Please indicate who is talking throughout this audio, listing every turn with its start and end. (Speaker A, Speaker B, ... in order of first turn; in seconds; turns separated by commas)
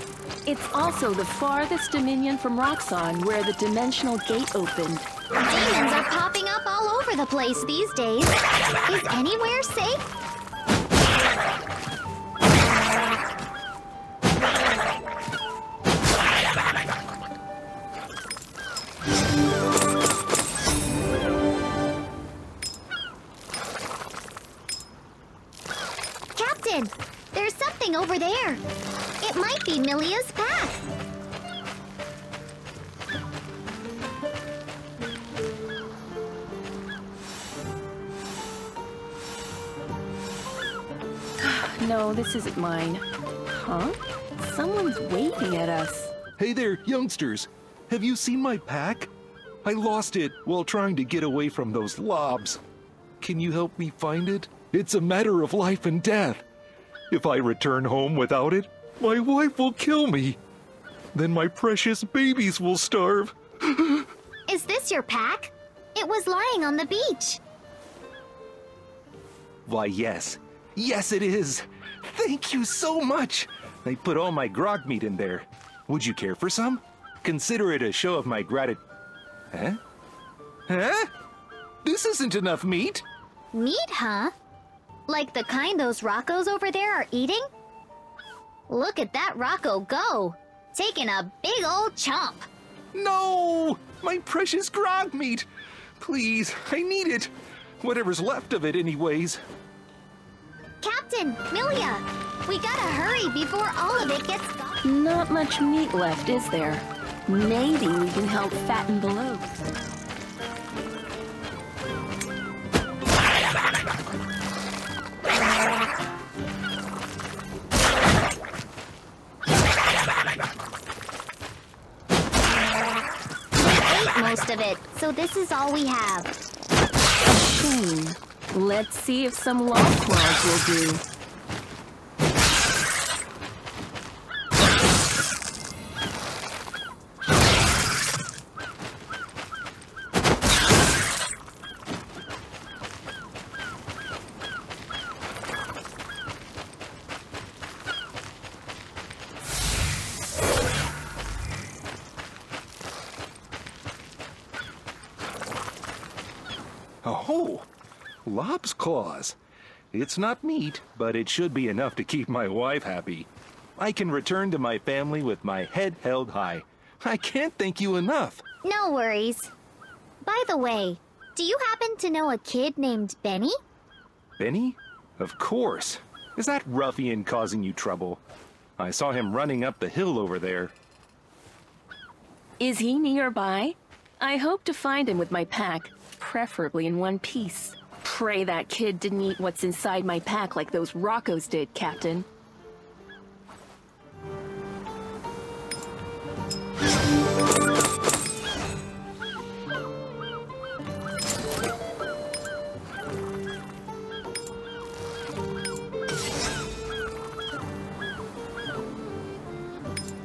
Speaker A: 0.5-5.1, Speaker B: 5.4-10.0, Speaker B: 26.3-28.6, Speaker B: 29.2-30.8, Speaker A: 41.4-46.1, Speaker C: 46.4-49.1, Speaker C: 49.6-52.6, Speaker C: 53.2-56.4, Speaker C: 57.1-60.4, Speaker C: 61.1-64.0, Speaker B: 64.5-67.4, Speaker C: 69.7-78.8, Speaker C: 79.5-79.8, Speaker C: 80.7-81.1, Speaker C: 81.8-83.0, Speaker B: 83.5-84.3, Speaker B: 85.1-87.5, Speaker B: 88.7-92.5, Speaker C: 92.9-95.5, Speaker C: 96.0-99.4, Speaker B: 100.8-104.8, Speaker A: 104.8-109.6, Speaker B: 123.6-126.3, Speaker A: 127.2-131.0, Speaker C: 157.0-157.7, Speaker C: 158.2-159.4, Speaker C: 159.9-168.4, Speaker B: 168.6-169.5, Speaker B: 170.2-173.5, Speaker C: 174.4-178.2, Speaker C: 178.8-180.7, Speaker A: 182.6-192.3